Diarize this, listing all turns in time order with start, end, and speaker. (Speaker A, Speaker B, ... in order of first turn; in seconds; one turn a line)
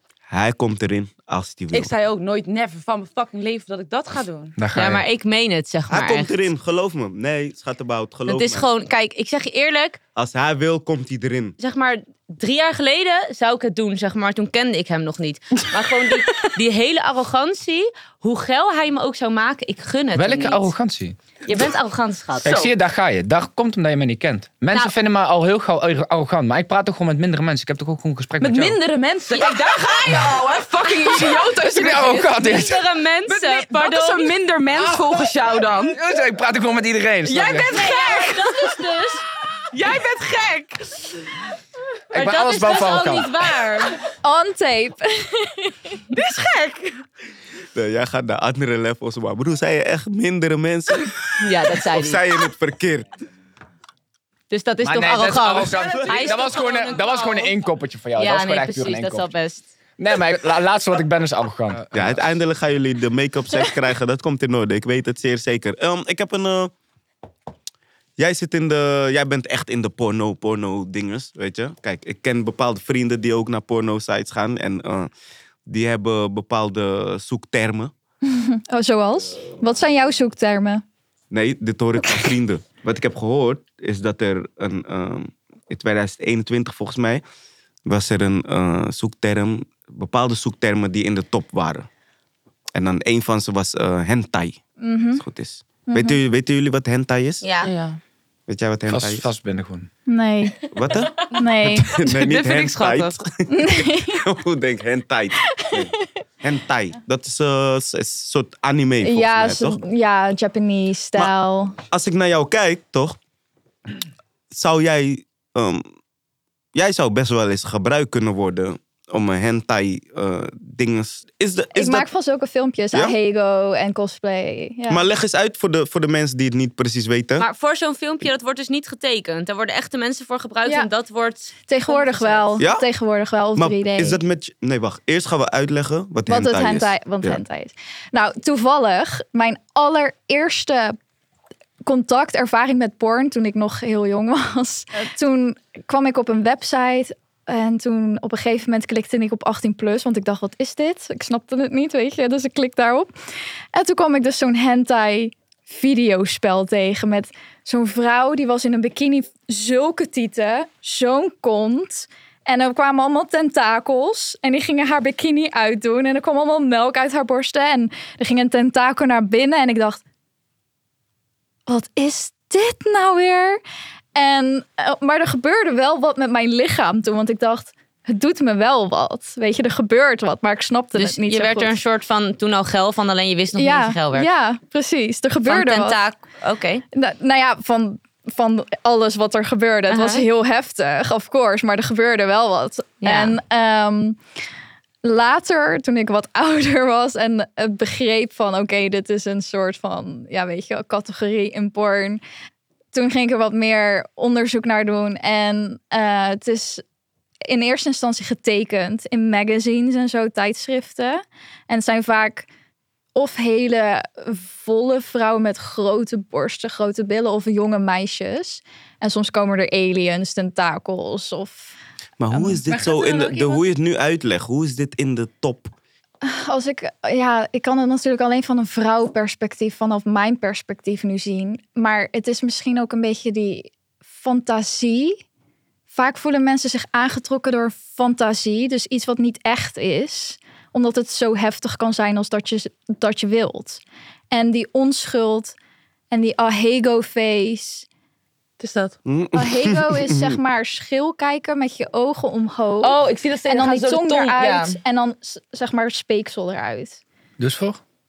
Speaker A: 0.3-1.9
Speaker B: 1.7-4.6
Speaker C: 4.6-5.0
Speaker D: 4.8-6.4
Speaker A: 5.9-8.7
Speaker D: 8.3-10.0
Speaker A: 10.2-11.6
Speaker D: 11.6-20.7
Speaker C: 20.1-21.2
Speaker D: 21.5-22.5
Speaker B: 22.4-22.7
Speaker C: 22.4-28.8
Speaker B: 28.4-32.4
Speaker C: 30.1-30.4
Speaker C: 31.1-32.8
Speaker D: 32.1-34.4
Speaker B: 33.3-36.0
Speaker C: 34.8-37.8
Speaker B: 37.2-38.7
Speaker D: 37.7-39.2
Speaker B: 39.7-41.2
Speaker C: 42.1-43.3
Speaker D: 42.1-44.0
Speaker E: 44.2-46.0
Speaker B: 46.1-47.0
Speaker A: 47.7-51.1
Speaker D: 51.4-52.2
Speaker A: 51.9-53.1
Speaker D: 54.5-57.5
Speaker C: 54.8-59.3
Speaker D: 58.2-59.7
Speaker C: 60.0-62.3
Speaker A: 61.9-66.7
Speaker A: 68.2-75.1
Speaker A: 75.7-77.9
Speaker E: 78.2-80.8
Speaker A: 81.3-87.2
Speaker A: 87.9-91.9
Speaker A: 92.8-94.6
Speaker E: 94.8-95.2
Speaker A: 95.2-97.4
Speaker E: 95.9-96.2
Speaker D: 97.4-97.7
Speaker B: 97.6-98.0
Speaker A: 98.5-99.3
Speaker C: 98.9-99.9
Speaker E: 100.1-100.7
Speaker A: 100.7-109.8
Speaker E: 101.3-101.9
Speaker B: 101.9-103.2
Speaker E: 103.5-104.2
Speaker E: 105.4-106.1
Speaker E: 109.0-111.8
Speaker A: 111.9-113.2
Speaker A: 114.5-115.8
Speaker A: 116.7-122.1
Speaker E: 121.7-125.0
Speaker A: 124.9-127.5
Speaker D: 127.4-132.6
Speaker E: 131.7-134.2
Speaker A: 132.6-132.9
Speaker A: 133.6-137.4
Speaker E: 136.3-141.0
Speaker E: 141.8-153.1
Speaker E: 153.7-170.0
Speaker E: 171.7-173.6
Speaker E: 174.2-181.8
Speaker D: 180.9-184.3
Speaker E: 183.6-186.0
Speaker D: 185.4-186.8
Speaker E: 186.9-194.2
Speaker D: 189.9-190.3
Speaker D: 193.0-193.4
Speaker E: 195.0-202.2
Speaker E: 202.9-206.8
Speaker E: 207.5-212.5
Speaker E: 213.2-221.7
Speaker A: 222.2-225.7
Speaker B: 222.3-223.6
Speaker E: 226.2-235.2
Speaker E: 235.9-245.6
Speaker E: 246.1-247.9
Speaker B: 248.6-249.0
Speaker A: 249.1-250.4
Speaker E: 249.3-257.0
Speaker B: 252.8-254.7
Speaker C: 257.4-257.8